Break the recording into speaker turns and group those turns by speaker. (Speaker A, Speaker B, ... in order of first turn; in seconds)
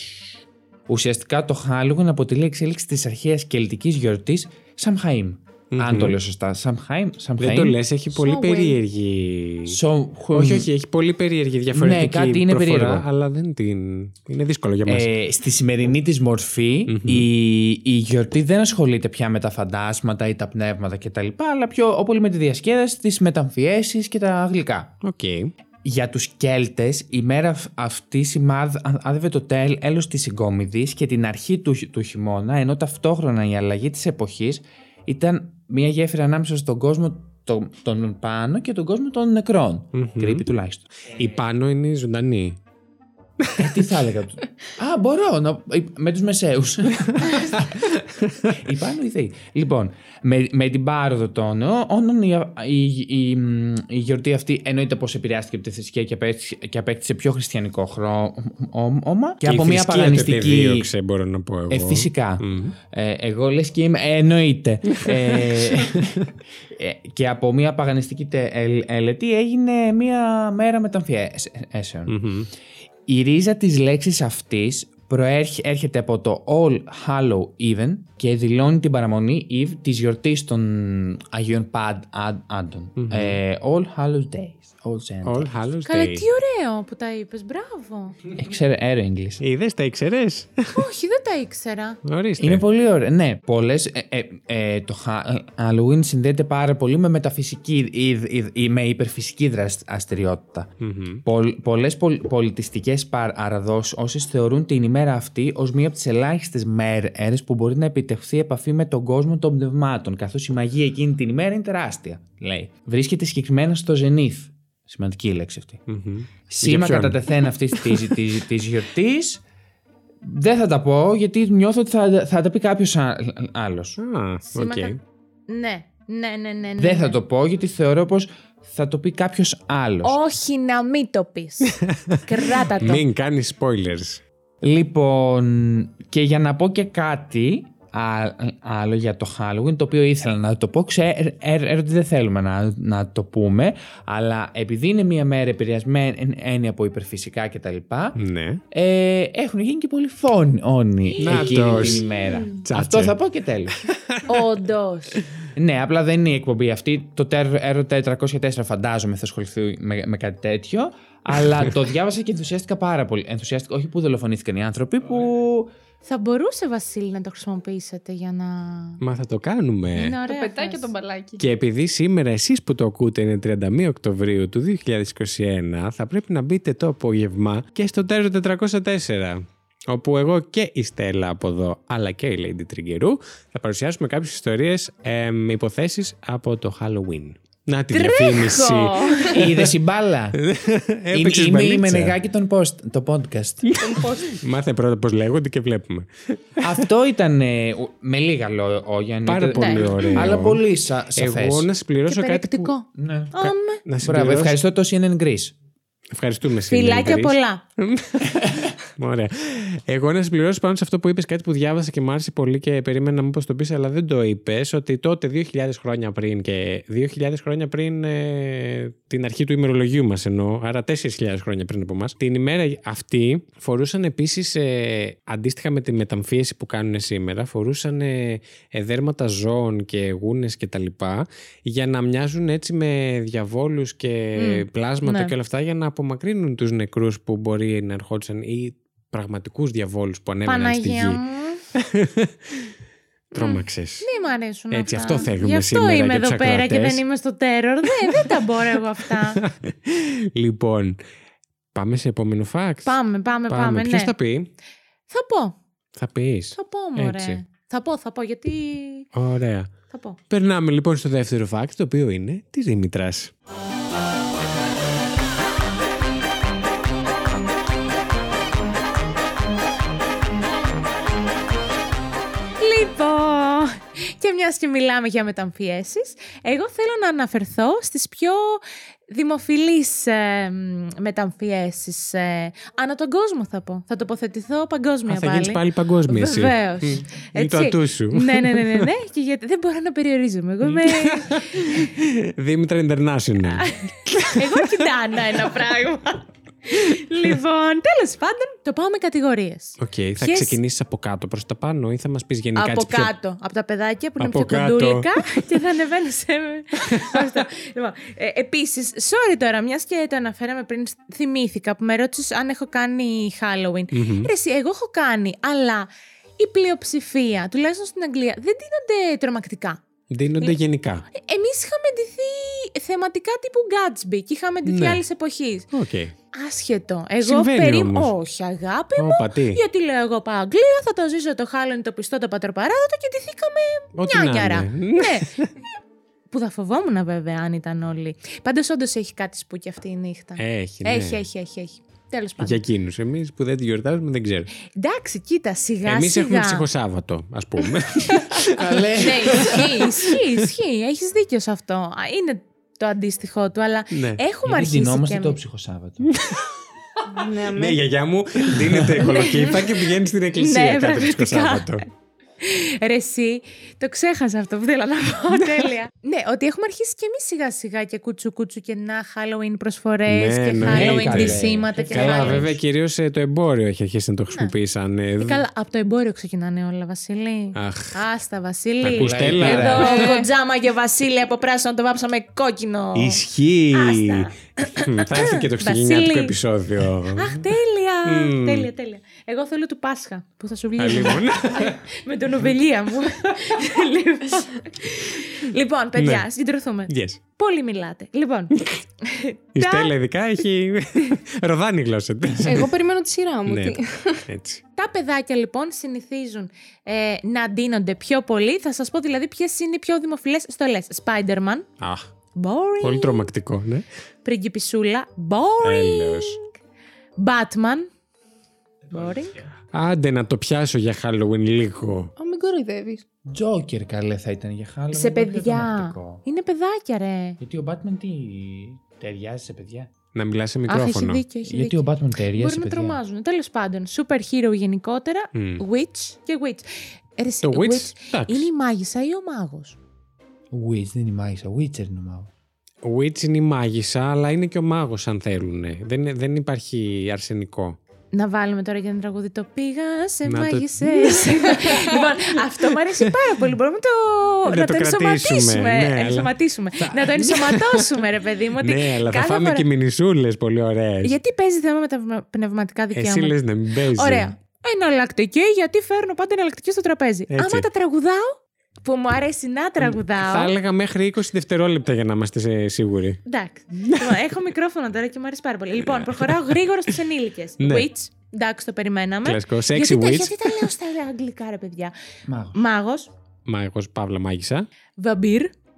Speaker A: 0.9-7.8, 9.7-10.7, 11.7-13.1, 14.8-24.9, 25.8-40.9, 43.6-47.7, 48.5-60.9, 61.7-72.2, 73.1-85.5, 88.4-89.4, 92.4-100.7, 101.2-115.8, 116.5-119.4, 120.2-124.0, 126.8-130.2, 134.6-148.2, 148.7-153.8, 155.6-165.7, 189.3-190.4, 191.1-193.7, 196.6-201.7, 202.9-203.3, 204.0-205.6, 348.6-349.6, 354.4-356.1, 370.6-372.6, 379.0-379.9, 423.3-426.2, 427.4-429.9, 431.4-433.0, 440.5-442.3, 482.3-482.6
Speaker B: 5.7-6.2, 7.4-9.8, 10.3-15.1, 16.9-17.3, 25.0-25.5, 39.9-40.5, 41.1-42.6, 43.4-43.8, 47.2-48.6, 59.4-62.8, 65.0-66.3, 72.1-72.5, 83.0-83.4, 85.2-86.3, 89.4-90.7, 92.0-92.6, 100.8-101.2, 115.9-118.1, 124.0-125.0, 131.7-132.2, 132.8-134.2, 148.2-148.6, 151.2-152.1, 152.6-153.1, 153.8-154.3, 169.0-170.2, 171.4-189.7, 190.4-192.2, 193.7-196.8, 199.3-200.6, 201.2-202.7, 203.4-204.6, 206.1-241.2, 241.7-242.7, 243.3-244.1, 244.7-247.0, 248.1-248.4, 249.3-251.0, 251.7-253.0, 253.5-254.5, 255.9-257.4, 259.1-259.7, 260.3-263.3, 285.1-288.9, 290.6-294.9, 299.8-303.1, 304.2-305.6, 306.8-307.4, 313.9-314.3, 320.1-321.1, 324.7-325.0, 325.7-326.1, 327.2-328.1, 329.0-329.6, 333.9-335.5, 340.4-341.2, 342.4-344.5, 345.9-350.4, 353.9-354.2, 356.1-356.5, 357.4-361.9, 370.1-375.4, 377.6-378.0, 378.8-380.1, 382.9-387.4, 388.1-388.7, 390.8-391.8, 396.0-396.3, 396.9-397.2, 398.6-398.8, 399.6-402.7, 403.5-404.6, 411.8-412.1, 412.8-413.9, 415.6-416.4, 419.7-422.1, 430.1-431.2, 435.3-435.6, 437.4-438.5, 442.8-447.8, 450.2-453.1, 454.5-458.0, 458.6-461.1, 462.9-464.3, 467.3-467.7, 469.8-473.2, 473.8-474.2, 475.8-476.6, 477.6-477.9, 479.2-480.7, 483.5-484.7
Speaker C: 8.1-8.8, 170.2-171.4, 193.8-194.4, 357.1-357.8, 359.2-359.6, 379.6-380.3, 402.4-404.2, 422.2-423.0, 451.6-451.9
Speaker D: 85.9-88.2, 90.7-92.0, 124.5-125.0, 125.5-127.2, 130.0-131.7, 132.2-133.0, 151.2-152.2, 154.3-155.2, 166.0-169.0, 169.9-170.9, 187.9-189.4, 199.6-200.3, 202.1-203.8, 206.7-207.6, 234.4-235.3, 240.5-241.6, 243.3-249.4, 252.8-254.1, 255.1-255.6, 256.6-259.1, 259.9-260.2, 272.6-291.8, 293.5-300.6, 302.6-319.8, 321.1-325.7, 326.3-335.4, 336.3-342.6, 344.7-346.6, 349.0-355.4, 359.0-359.6, 360.4-361.9, 362.4-372.6, 375.2-383.2, 383.7-386.4, 387.1-399.9, 404.8-411.7, 412.4-413.3, 414.2-416.5, 417.2-417.9, 418.9-419.4, 424.9-427.4, 430.7-439.8, 448.1-459.7, 461.0-463.4, 463.9-470.5, 473.3-481.9, 482.5-483.1, 485.0-485.5